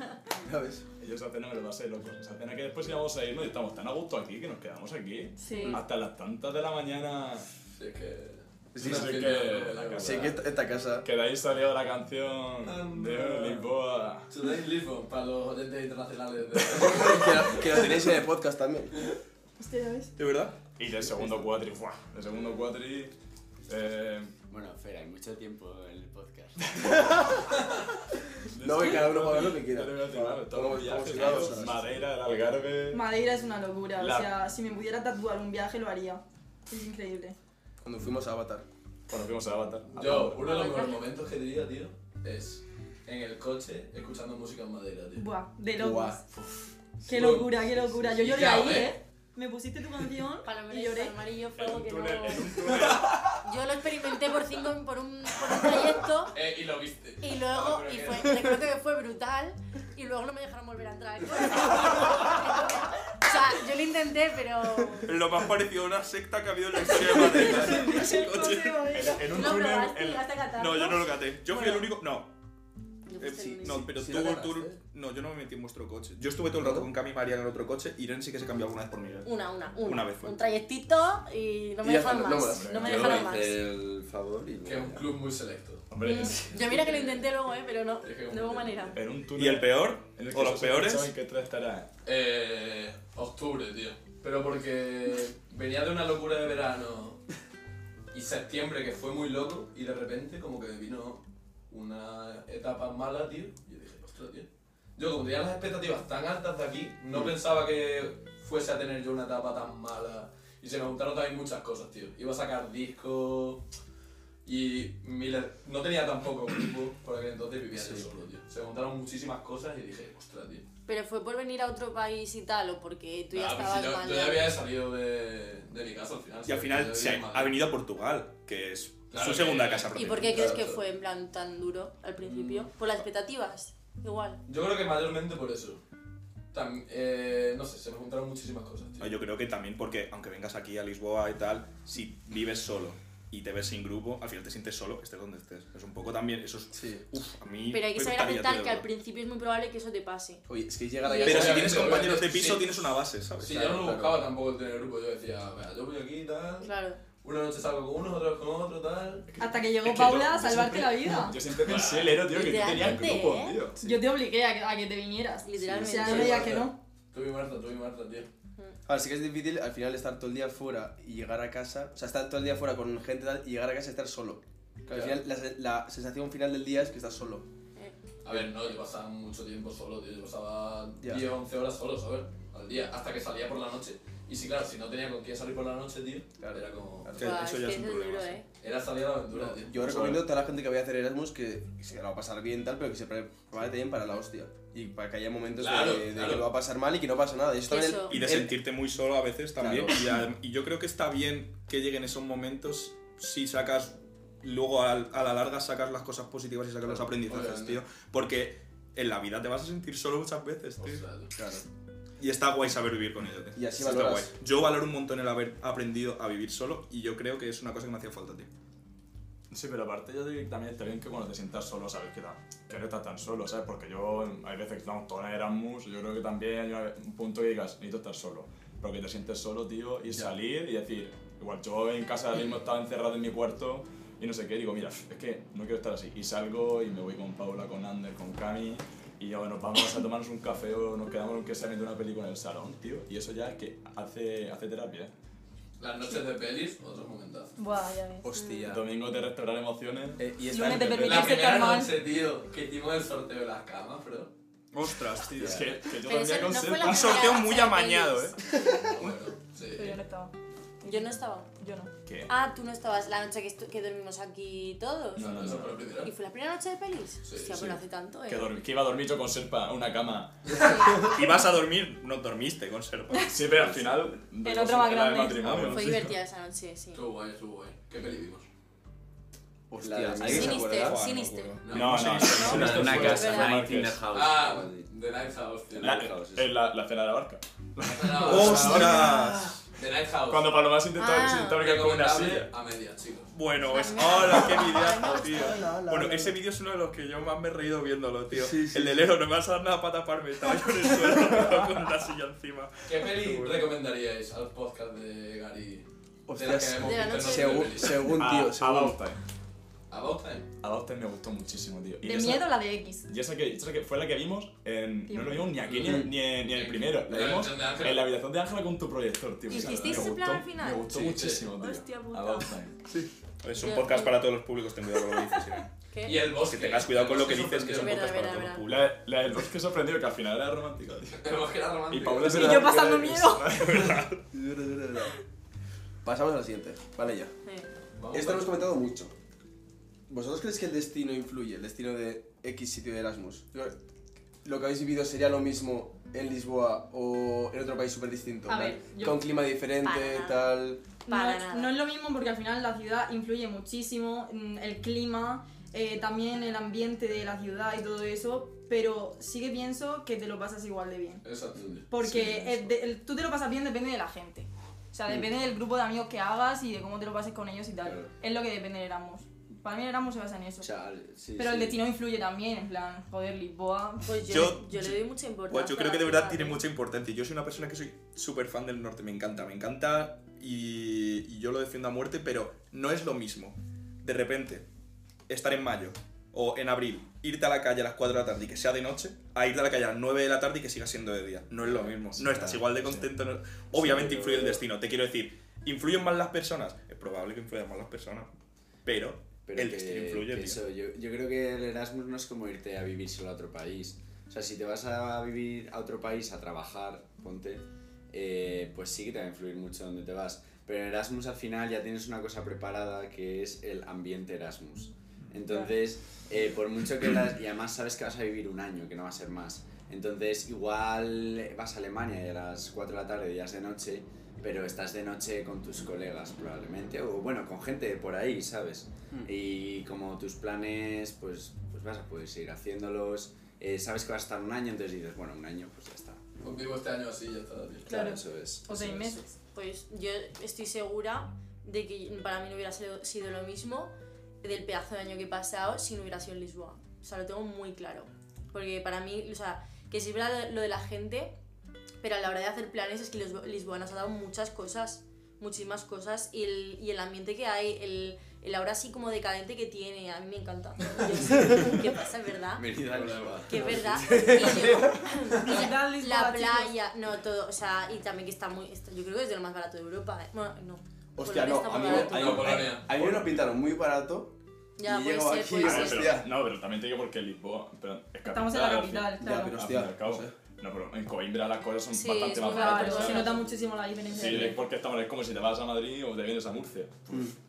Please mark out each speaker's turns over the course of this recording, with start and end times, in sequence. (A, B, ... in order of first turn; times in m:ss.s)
0:00.3-0:00.8 A
0:01.0-0:07.5 B
0:05.4-0:05.8 C
0:05.5-0:05.8 D
0:07.8-0:10.4 E
0:08.7-0:09.4 A
0:08.8-0:10.4 B
0:10.0-0:11.1 A
0:11.0-0:14.3 B
0:12.6-0:13.7 E
0:14.3-0:17.9 E
0:16.8-0:18.9 A
0:19.6-0:20.1 C
0:20.2-0:20.6 F
0:20.8-0:23.1 B
0:21.0-0:21.5 A
0:23.7-0:24.3 B
0:24.5-0:27.4 G
0:28.5-0:33.0 B
0:28.6-0:32.0 A
0:32.9-0:37.4 C
0:34.0-0:34.3 B
0:37.8-0:38.7 A
0:39.1-0:40.6 B
0:39.9-0:45.3 E
0:40.4-0:41.0 D
0:45.2-0:46.2 C
0:45.8-0:46.2 A
0:47.0-0:51.2 C
0:47.0-0:49.0 E
0:50.4-0:56.4 D
0:51.6-0:53.4 B
0:56.3-0:58.5 E
0:57.2-1:05.1 D
1:05.0-1:09.0 F
1:06.9-1:09.2 C
1:08.9-1:10.3 B
1:09.2-1:11.8 D
1:10.6-1:12.3 F
1:13.0-1:13.8 D
1:13.2-1:20.4 F
1:13.3-1:14.8 A
1:16.6-1:16.9 A
1:19.2-1:23.6 D
1:21.8-1:23.0 A
1:22.5-1:23.3 B
1:22.8-1:25.1 G
1:24.6-1:25.9 E
1:25.9-1:26.8 B
1:26.0-1:29.0 D
1:26.6-1:27.3 E
1:28.0-1:29.0 E
1:28.9-1:31.9 B
1:29.3-1:31.1 F
1:32.0-1:37.2 E
1:38.1-1:53.6 E
1:54.4-2:00.6 E
1:57.8-1:58.0 A
2:00.9-2:04.5 D
2:03.3-2:07.6 E
2:06.4-2:10.6 F
2:09.1-2:10.8 E
2:09.9-2:14.4 D
2:12.2-2:12.7 E
2:14.4-2:15.8 E
2:16.5-2:19.2 E
2:19.0-2:28.8 F
2:26.7-2:27.0 A
2:27.7-2:30.4 D
2:30.5-2:32.1 A
2:31.0-2:31.4 D
2:31.1-2:39.3 E
2:31.2-2:33.9 F
2:33.6-2:34.2 A
2:36.6-2:37.0 D
2:39.3-2:43.8 B
2:39.4-2:41.4 C
2:41.6-2:42.3 E
2:42.2-2:43.6 D
2:43.8-2:46.8 C
2:45.4-2:46.6 D
2:46.0-2:48.3 E
2:48.8-2:57.4 A
2:54.8-2:55.2 E
2:58.2-3:07.1 E
3:06.4-3:07.5 A
3:07.1-3:08.4 F
3:07.2-3:08.4 D
3:08.6-3:10.2 E
3:09.3-3:18.6 A
3:15.6-3:16.5 E
3:17.7-3:18.2 D
3:18.1-3:31.0 F
3:19.6-3:20.1 A
3:27.2-3:27.8 E
3:30.8-3:31.3 E
3:31.3-3:31.6 A
3:32.2-3:38.5 F
3:33.5-3:34.3 A
3:39.5-4:05.1 B
4:05.8-4:07.5 E
4:07.6-4:08.3 C
4:08.2-4:08.9 A
4:08.3-4:08.7 D
4:08.7-4:11.4 B
4:10.2-4:11.0 A
4:10.4-4:11.9 C
4:11.0-4:14.3 E
4:14.7-4:15.8 F
4:15.3-4:17.4 B
4:16.0-4:18.6 D
4:16.8-4:19.2 F
4:18.8-4:20.0 E
4:19.7-4:21.9 C
4:20.8-4:21.5 D
4:22.0-4:22.3 B
4:22.3-4:25.5 D
4:25.2-4:25.8 B
4:25.2-4:26.1 E
4:26.0-4:28.6 D
4:27.2-4:27.6 E
4:27.5-4:31.0 B
4:30.6-4:31.0 D
4:30.9-4:33.9 F
4:33.3-4:36.2 B
4:34.4-4:35.6 C
4:35.5-4:35.7 F
4:35.6-4:37.0 D
4:36.9-4:38.5 E
4:39.7-4:41.0 A
4:39.8-4:40.7 G
4:40.2-4:42.8 F
4:40.2-4:41.6 D
4:41.6-4:43.1 E
4:41.7-4:44.0 B
4:42.2-4:43.6 D
4:42.3-4:44.9 G
4:44.0-4:46.1 E
4:45.8-4:46.5 G
4:45.8-4:49.3 B
4:47.8-4:49.1 E
4:48.2-4:49.5 F
4:49.7-4:50.6 E
4:50.3-4:52.5 B
4:51.0-4:51.6 D
4:51.5-4:53.3 E
4:53.3-5:03.1 F
4:53.6-4:55.7 D
4:55.0-4:56.4 A
4:58.3-4:59.1 A
5:02.8-5:08.1 E
5:06.3-5:09.0 A
5:06.8-5:08.0 D
5:08.0-5:09.2 B
5:09.9-5:10.5 E
5:10.6-5:12.5 B
5:12.0-5:13.1 C
5:13.1-5:22.8 B
5:15.1-5:15.6 C
5:15.6-5:18.1 E
5:15.8-5:16.1 A
5:19.5-5:20.1 E
5:19.5-5:20.8 D
5:20.8-5:21.5 E
5:21.5-5:22.5 D
5:23.4-5:25.7 F
5:23.6-5:24.2 D
5:25.9-5:26.2 D
5:26.0-5:28.1 E
5:26.3-5:28.9 F
5:27.7-5:28.6 D
5:28.6-5:34.0 B
5:31.1-5:32.6 E
5:32.3-5:33.6 C
5:32.5-5:33.1 A
5:33.5-5:34.2 F
5:34.3-5:35.2 A
5:36.0-5:37.3 A
5:38.0-5:38.5 E
5:38.1-5:39.1 A
5:40.1-5:43.8 A
5:44.4-5:50.8 A
5:48.5-5:49.2 C
5:49.8-5:50.5 D
5:51.1-5:51.8 D
5:51.1-6:01.2 C
6:01.2-6:01.9 E
6:01.6-6:02.1 G
6:01.9-6:10.7 C
6:07.8-6:08.1 G
6:10.6-6:11.8 G
6:11.4-6:14.5 C
6:14.0-6:16.6 D
6:14.3-6:24.7 F
6:25.3-6:38.3 F
6:31.6-6:33.0 G
6:33.7-6:34.6 G
6:38.8-6:40.6 F
6:39.5-7:16.2 G
7:16.4-7:18.0 E
7:17.9-7:19.2 G
7:17.9-7:19.3 C
7:19.5-7:31.3 D
7:32.0-7:42.7 D
7:42.6-7:44.4 G
7:42.9-7:43.7 E
7:43.4-7:52.6 D
7:43.6-7:45.1 A
7:45.3-7:46.7 C
7:51.1-7:56.3 A
7:51.9-7:53.0 E
7:52.3-7:53.5 B
7:54.8-7:56.1 D
7:55.6-8:03.4 B
7:58.2-7:59.6 C
7:59.2-8:00.3 A
8:01.9-8:03.4 D
8:02.4-8:04.6 C
8:04.1-8:07.3 B